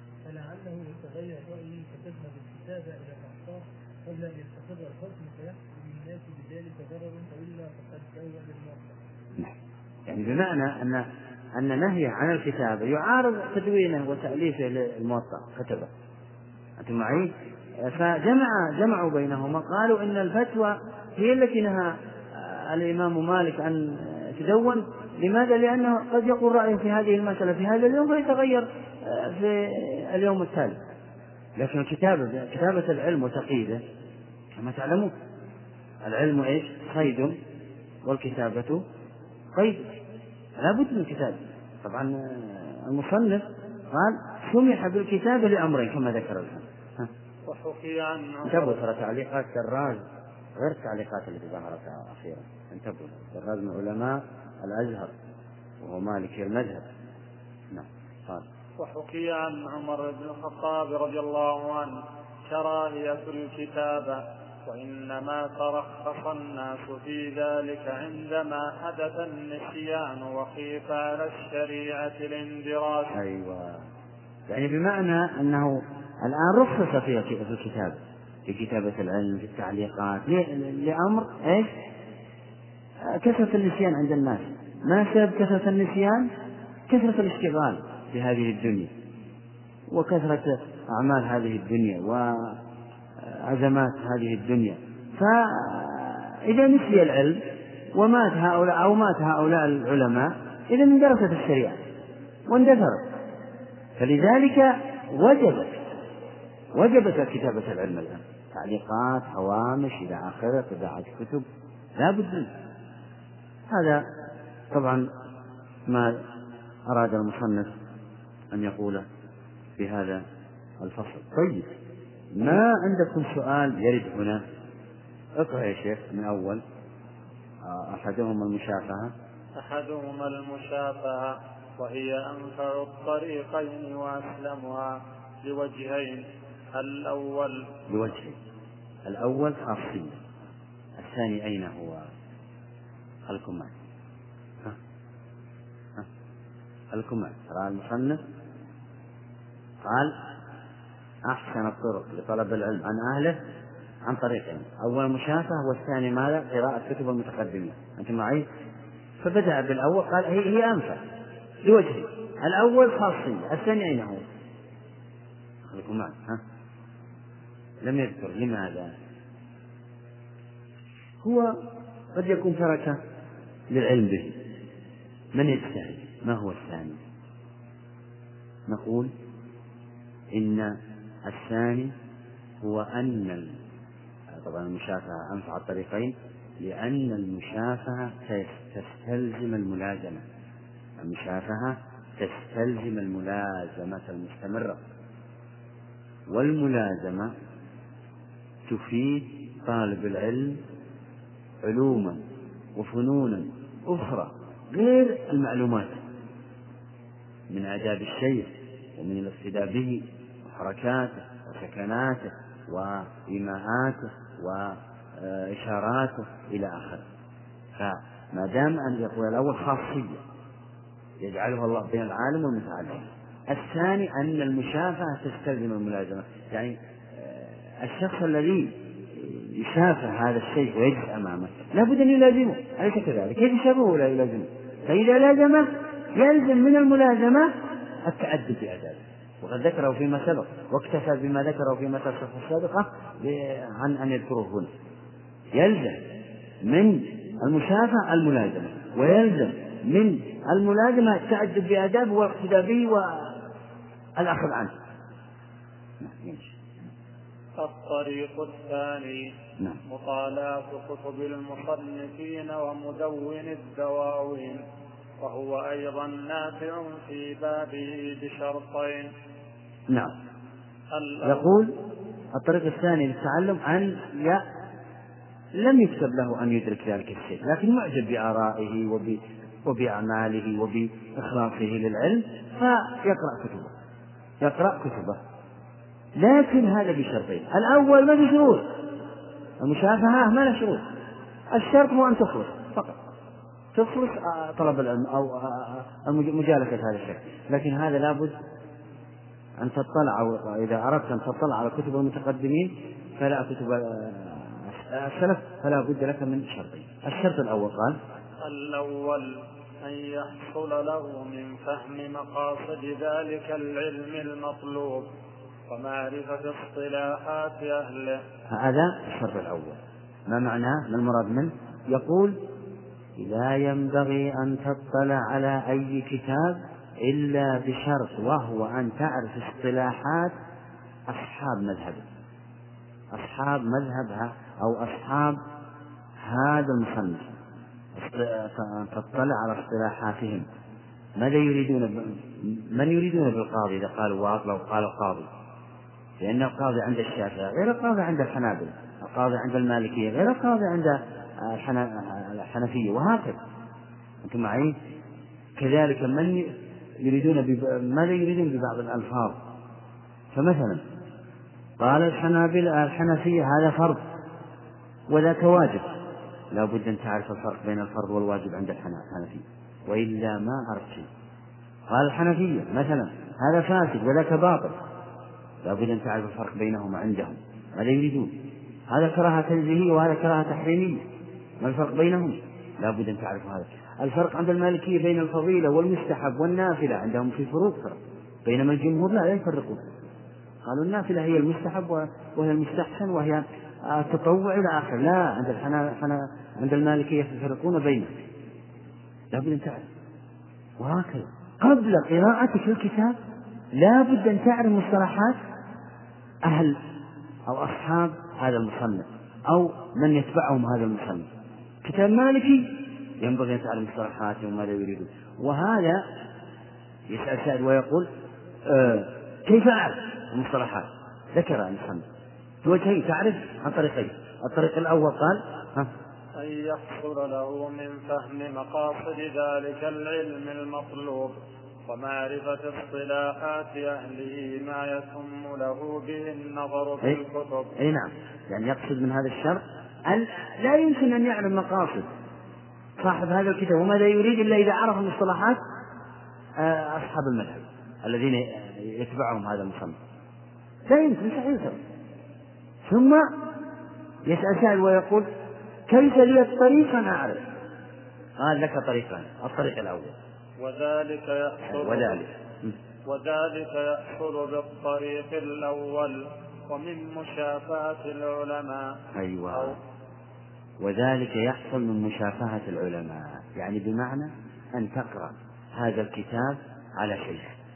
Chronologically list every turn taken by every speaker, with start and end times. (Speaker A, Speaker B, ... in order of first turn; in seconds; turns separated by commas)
Speaker A: 0.2-9.0, Speaker B: 10.1-15.9, Speaker B: 16.8-30.8, Speaker B: 31.6-33.8, Speaker B: 34.6-35.1, Speaker B: 36.0-37.4, Speaker B: 38.1-38.8, Speaker B: 39.5-39.9, Speaker B: 40.6-47.1, Speaker C: 47.5-48.8, Speaker B: 48.5-50.0, Speaker B: 50.6-55.1, Speaker B: 55.8-56.9, Speaker B: 57.7-58.5, Speaker C: 58.8-73.2, Speaker B: 73.1-73.9, Speaker B: 74.5-81.7, Speaker B: 83.0-86.3, Speaker B: 86.9-88.9, Speaker B: 89.9-92.6, Speaker B: 93.2-101.8, Speaker B: 102.5-103.1, Speaker B: 104.0-105.8, Speaker B: 106.7-111.5, Speaker B: 112.0-112.5, Speaker B: 113.7-114.0, Speaker B: 114.7-115.1, Speaker B: 115.9-116.2, Speaker B: 116.9-117.7, Speaker B: 118.5-119.1, Speaker B: 119.8-120.2, Speaker B: 120.8-121.7, Speaker B: 122.3-124.4, Speaker B: 125.4-126.6, Speaker B: 127.6-129.1, Speaker C: 129.6-137.7, Speaker B: 137.9-138.4, Speaker B: 139.1-140.2, Speaker B: 141.0-142.1, Speaker B: 143.3-143.7, Speaker B: 146.9-148.2, Speaker B: 149.8-150.2, Speaker B: 151.3-153.4, Speaker B: 154.1-158.5, Speaker B: 159.2-161.0, Speaker B: 161.6-164.2, Speaker B: 165.7-166.4, Speaker B: 167.8-168.9, Speaker B: 171.2-171.6, Speaker B: 172.2-173.0, Speaker B: 173.7-174.4, Speaker B: 175.3-177.0, Speaker B: 178.7-179.1, Speaker B: 180.3-181.9, Speaker B: 182.6-183.6, Speaker B: 184.4-190.2, Speaker B: 191.0-194.8, Speaker B: 196.3-197.3, Speaker B: 198.7-200.6, Speaker B: 201.6-202.2, Speaker B: 202.8-206.0, Speaker B: 207.5-217.1, Speaker B: 217.8-220.2, Speaker B: 221.2-244.7, Speaker B: 245.5-246.0, Speaker B: 246.6-253.4, Speaker B: 254.2-254.7, Speaker B: 256.0-256.5, Speaker C: 257.6-259.3, Speaker C: 259.9-264.6, Speaker C: 265.2-269.1, Speaker B: 269.9-270.1, Speaker C: 270.9-271.5, Speaker B: 271.2-271.7, Speaker B: 272.3-274.4, Speaker B: 275.6-283.7, Speaker B: 284.4-285.2, Speaker B: 286.2-288.7, Speaker B: 289.6-290.8, Speaker B: 291.5-293.0, Speaker B: 293.7-298.4, Speaker B: 299.6-308.0, Speaker C: 308.4-315.1, Speaker C: 315.7-318.2, Speaker B: 318.5-322.4, Speaker B: 323.2-330.4, Speaker B: 331.1-332.1, Speaker B: 333.1-335.4, Speaker B: 336.2-337.3, Speaker B: 337.9-340.5, Speaker B: 341.2-345.3, Speaker B: 346.2-353.4, Speaker B: 354.2-354.8, Speaker B: 355.6-359.4, Speaker B: 360.3-360.8, Speaker B: 361.8-364.0, Speaker B: 365.1-365.9, Speaker B: 366.5-371.1, Speaker B: 371.9-374.8, Speaker B: 375.6-381.0, Speaker B: 381.6-389.9, Speaker B: 390.6-398.2, Speaker B: 399.3-399.9, Speaker B: 400.8-403.2, Speaker B: 403.7-405.4, Speaker B: 406.4-406.8, Speaker B: 407.5-411.3, Speaker B: 411.8-416.0, Speaker B: 417.1-418.1, Speaker B: 418.7-422.1, Speaker B: 422.6-425.9, Speaker C: 426.4-437.7, Speaker B: 437.8-442.1, Speaker B: 443.0-445.6, Speaker B: 446.6-450.0, Speaker B: 450.9-451.8, Speaker B: 452.9-453.3, Speaker B: 454.3-455.3, Speaker B: 455.9-457.4, Speaker B: 458.4-460.1, Speaker C: 460.6-462.2, Speaker B: 461.7-462.8, Speaker C: 463.1-469.0, Speaker B: 469.1-469.8, Speaker C: 469.5-469.8, Speaker B: 470.8-477.6